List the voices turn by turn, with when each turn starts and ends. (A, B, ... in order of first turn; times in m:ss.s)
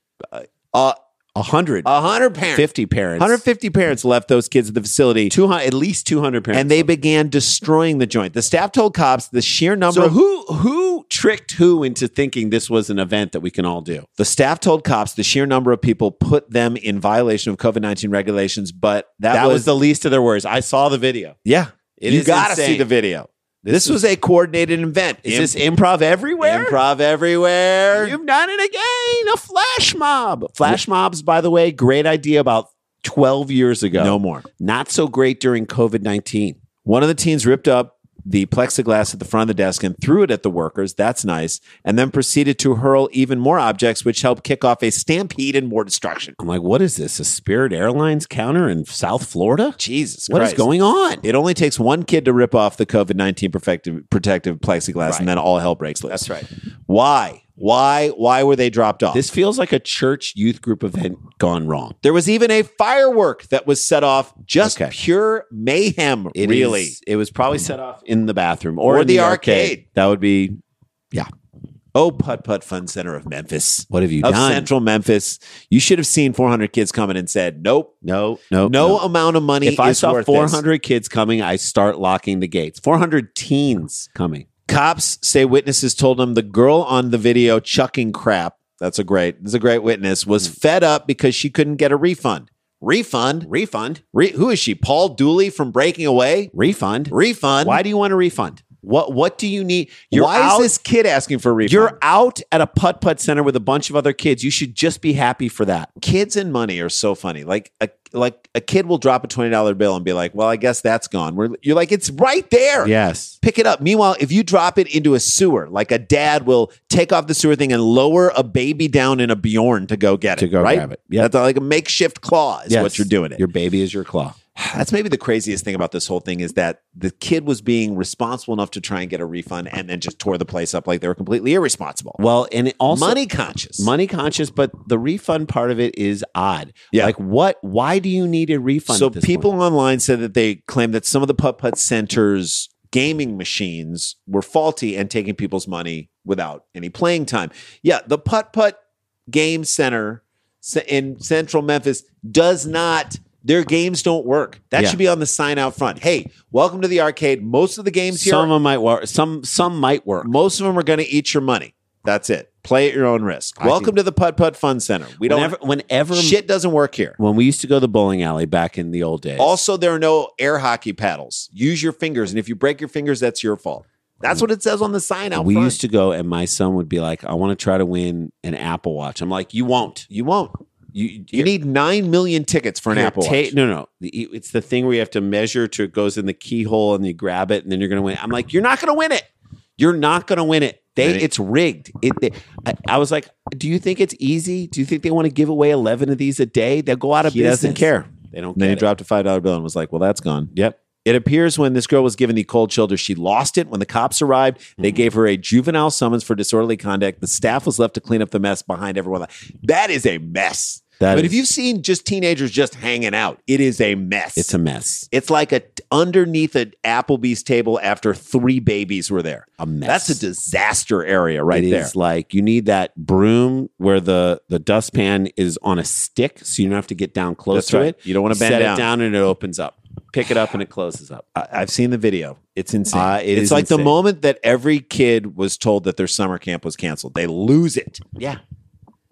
0:00.4-0:01.9 A
0:01.8-0:02.7 B
0:02.5-0:03.4 A
0:03.2-0:05.3 B
0:05.3-0:06.9 A
0:06.5-0:10.2 B
0:09.9-0:14.1 A
0:14.2-0:19.7 B
0:19.3-0:21.3 A
0:21.4-0:25.6 B
0:22.0-0:22.8 A
0:23.6-0:24.0 A
0:25.2-0:26.8 A
0:26.4-0:28.2 B
0:27.9-0:36.6 A
0:34.0-0:34.4 B
0:36.8-0:46.4 B
0:46.4-0:49.8 A
0:49.8-0:50.6 B
0:50.3-0:51.2 A
0:51.2-0:56.2 B
0:56.1-0:56.5 A
0:56.9-0:59.2 B
0:59.1-1:02.0 A
1:02.0-1:07.0 B
1:04.6-1:04.9 A
1:06.3-1:10.6 A
1:08.8-1:09.8 B
1:11.9-1:18.0 B
1:13.9-1:14.7 A
1:18.0-1:19.0 A
1:18.6-1:20.6 B
1:19.6-1:24.5 A
1:24.7-1:33.5 B
1:33.4-1:34.0 A
1:34.1-1:36.5 B
1:36.5-1:40.7 A
1:37.1-1:37.8 B
1:40.1-1:41.9 B
1:41.6-1:45.9 A
1:46.0-2:03.4 B
1:52.8-1:53.4 A
2:00.4-2:01.3 A
2:02.7-2:04.4 A
2:04.5-2:12.2 B
2:12.2-2:13.2 A
2:12.9-2:13.9 B
2:13.8-2:19.5 A
2:18.9-2:38.5 B
2:38.1-2:40.3 A
2:40.2-2:45.5 B
2:43.6-2:43.9 A
2:45.2-2:46.4 A
2:46.1-2:47.2 B
2:47.2-2:49.5 A
2:49.4-2:55.8 B
2:55.3-3:00.1 A
3:00.1-3:00.5 B
3:00.9-3:01.5 A
3:01.3-3:03.5 B
3:02.9-3:18.9 A
3:11.0-3:11.2 B
3:17.2-3:20.5 B
3:21.0-3:34.5 B
3:31.0-3:31.4 A
3:34.4-3:35.1 A
3:35.1-3:41.9 B
3:39.6-3:40.2 A
3:41.5-3:51.2 A
3:47.5-3:48.9 B
3:51.3-3:58.2 B
3:52.9-3:53.9 A